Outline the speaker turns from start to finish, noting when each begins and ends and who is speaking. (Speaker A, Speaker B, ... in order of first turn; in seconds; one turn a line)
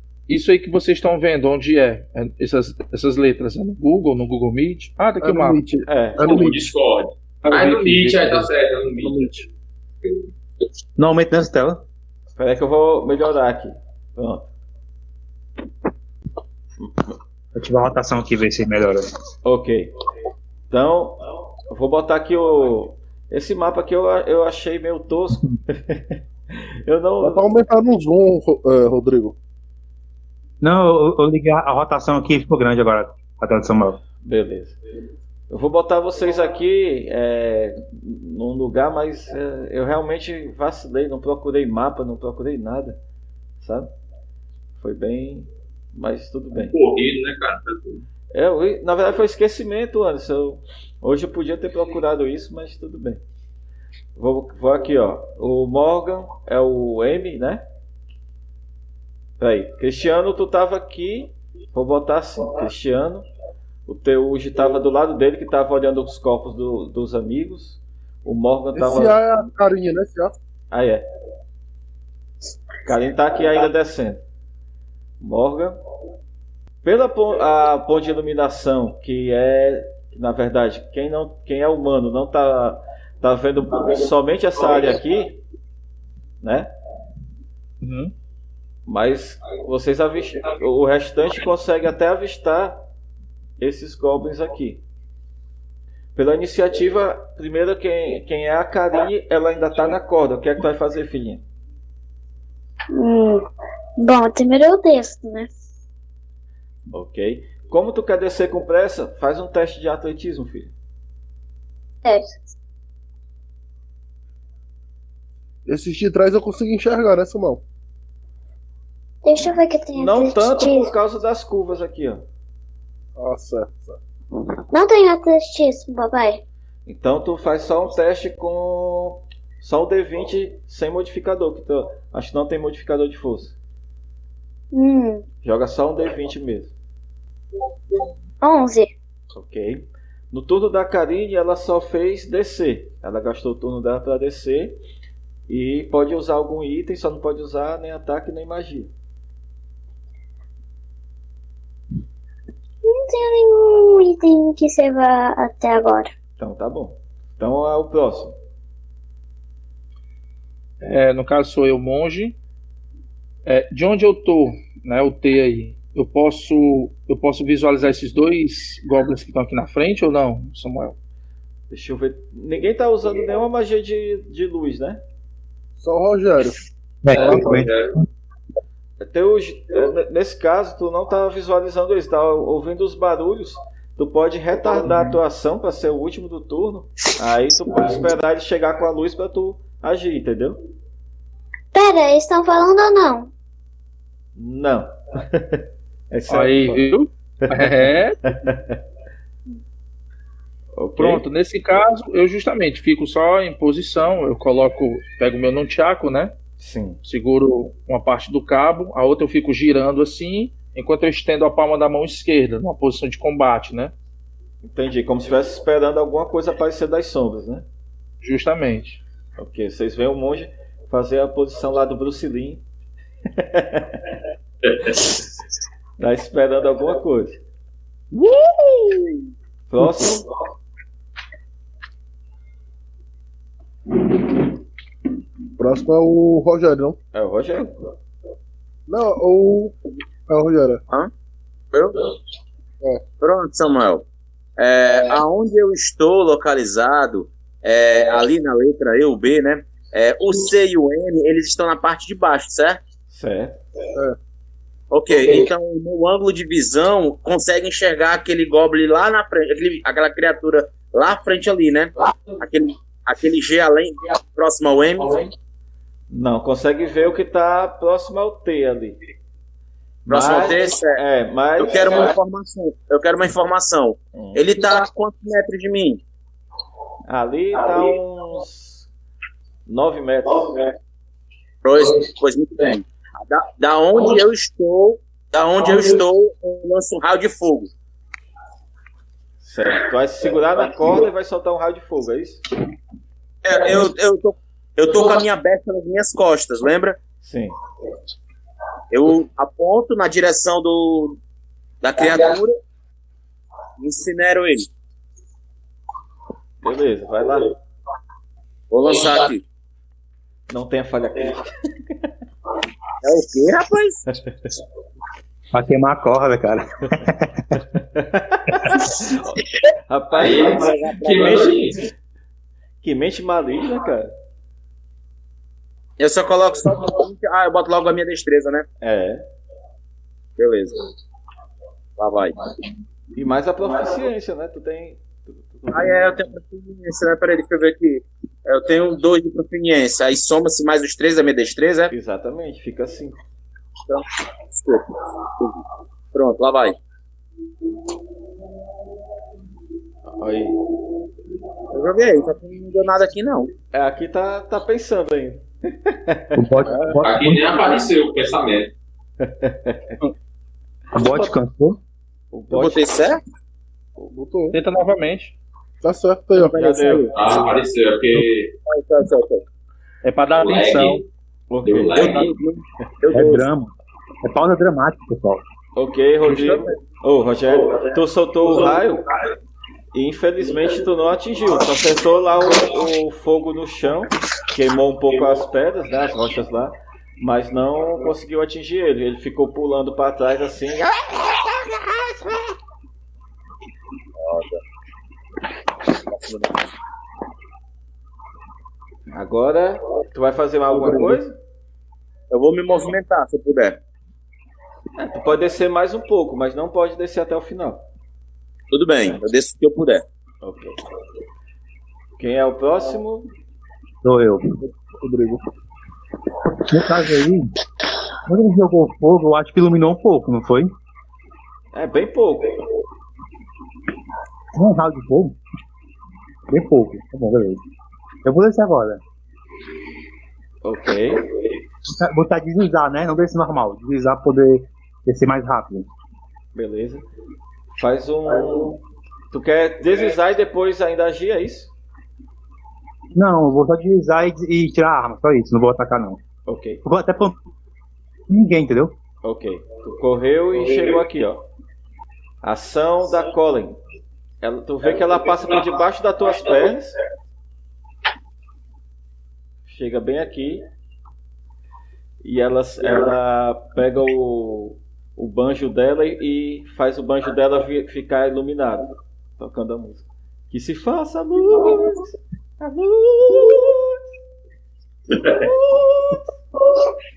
Speaker A: 0.3-5.6
Speaker B: 5.2-6.6
Speaker C: 5.9-6.5
Speaker D: 6.2-9.3
Speaker A: 7.4-8.5
Speaker B: 9.0-9.5
Speaker E: 11.0-11.8
Speaker C: 12.4-14.4
Speaker E: 17.6-19.1
Speaker C: 19.4-19.9
Speaker C: 20.7-21.2
Speaker C: 21.7-27.5
Speaker B: 27.2-29.4
Speaker E: 30.6-34.0
Speaker C: 34.2-34.8
Speaker C: 35.5-43.0
Speaker C: 43.6-43.9
Speaker C: 44.8-46.7
Speaker D: 46.7-48.0
Speaker C: 48.3-53.2
Speaker C: 54.1-57.6
Speaker C: 59.4-63.2
Speaker C: 63.9-69.2
Speaker B: 68.7-70.3
Speaker C: 70.7-71.0
Speaker C: 72.9-74.2
Speaker C: 75.2-75.8
Speaker C: 76.8-85.4
Speaker C: 86.4-86.7
Speaker A: 87.8-88.1
Speaker C: 88.9-92.8
Speaker C: 93.6-94.8
Speaker C: 96.2-101.4
Speaker F: 102.9-103.4
Speaker F: 104.0-105.5
Speaker C: 106.9-110.7
Speaker F: 112.0-112.3
Speaker B: 115.7-117.6
Speaker F: 119.2-120.9
Speaker C: 119.9-122.2
Speaker B: 123.2-124.0
Speaker F: 124.7-126.4
Speaker C: 126.9-133.6
Speaker F: 134.7-135.2
Speaker C: 135.4-136.7
Speaker F: 138.4-138.9
Speaker C: 139.3-144.8
Speaker C: 145.5-148.9
Speaker F: 152.8-156.1
Speaker C: 156.4-158.3
Speaker A: 160.8-162.4
Speaker A: 163.4-170.9
Speaker C: 171.7-175.0
Speaker B: 175.8-176.6
Speaker E: 177.0-177.8
Speaker B: 177.1-177.5
Speaker D: 177.1-177.9
Speaker C: 179.0-190.6
Speaker F: 191.7-193.3
Speaker C: 194.4-196.9
Speaker A: 196.3-198.2
Speaker C: 197.4-198.8
Speaker C: 200.7-201.2
Speaker A: 201.0-206.3
Speaker C: 206.6-207.0
Speaker A: 207.1-213.9
Speaker C: 214.6-217.6
Speaker A: 218.2-219.0
Speaker C: 219.4-222.6
Speaker C: 223.4-224.0
Speaker C: 226.0-227.4
Speaker C: 229.7-230.2
Speaker B: 235.6-237.0
Speaker C: 237.1-237.8
Speaker B: 238.9-239.7
Speaker B: 240.3-240.8
Speaker G: 241.7-242.1
Speaker G: 243.2-244.0
Speaker G: 244.6-252.8
Speaker C: 253.1-253.6
Speaker G: 254.9-265.3
Speaker C: 266.1-269.0
Speaker C: 270.1-272.1
Speaker G: 270.1-271.0
Speaker G: 271.6-276.0
Speaker C: 274.1-274.4
Speaker C: 277.1-278.9
Speaker C: 279.7-280.6
Speaker G: 281.6-287.7
Speaker C: 289.4-292.4
Speaker G: 293.4-297.0
Speaker C: 297.2-297.6
Speaker G: 298.9-301.2
Speaker G: 301.8-302.6
Speaker G: 303.8-304.7
Speaker C: 306.6-307.5
Speaker G: 308.7-309.4
Speaker C: 310.5-311.5
Speaker G: 313.0-314.0
Speaker E: 315.5-317.6
Speaker C: 317.7-321.8
Speaker D: 320.2-321.8
Speaker G: 320.2-321.5
Speaker C: 322.8-324.1
Speaker G: 326.0-328.6
Speaker C: 328.8-329.2
Speaker G: 330.4-330.8
Speaker G: 332.0-332.4
Speaker C: 333.1-336.4
Speaker G: 335.7-341.9
Speaker C: 341.9-343.2
Speaker G: 343.9-344.9
Speaker G: 346.1-346.8
Speaker C: 350.2-350.6
Speaker G: 351.7-353.5
Speaker C: 353.7-356.7
Speaker E: 356.4-357.6
Speaker B: 356.6-356.9
Speaker D: 357.0-358.7
Speaker C: 359.2-360.0
Speaker E: 360.9-361.8
Speaker C: 362.3-362.9
Speaker G: 362.5-363.2
Speaker B: 364.1-364.6
Speaker A: 364.5-365.4
Speaker B: 365.8-367.1
Speaker C: 366.4-367.4
Speaker D: 367.1-368.5
Speaker G: 368.6-369.4
Speaker A: 370.0-371.0
Speaker D: 370.4-371.0
Speaker C: 371.5-372.1
Speaker D: 371.6-372.3
Speaker G: 371.9-373.5
Speaker E: 373.1-373.7
Speaker E: 374.2-375.4
Speaker C: 375.8-379.0
Speaker C: 379.9-392.5
Speaker G: 394.2-394.6
Speaker G: 396.1-396.7
Speaker C: 399.1-401.3
Speaker G: 402.3-403.8
Speaker C: 405.0-407.8
Speaker G: 408.7-410.0
Speaker C: 410.4-410.8
Speaker C: 412.2-413.3
Speaker E: 414.0-414.4
Speaker B: 414.6-415.4
Speaker E: 416.5-417.5
Speaker E: 418.2-420.7
Speaker C: 421.7-422.5
Speaker E: 424.6-425.4
Speaker E: 426.5-427.6
Speaker E: 428.2-429.0
Speaker C: 430.6-431.2
Speaker E: 431.9-435.9
Speaker C: 436.6-437.0
Speaker C: 437.8-438.8
Speaker C: 439.3-441.7
Speaker E: 443.1-446.2
Speaker C: 446.5-446.8
Speaker E: 446.8-447.4
Speaker E: 448.3-448.9
Speaker C: 449.2-451.4
Speaker C: 452.4-453.8
Speaker C: 454.4-457.0
Speaker C: 459.6-460.6
Speaker C: 462.2-468.9
Speaker C: 469.4-474.0
Speaker C: 475.1-476.3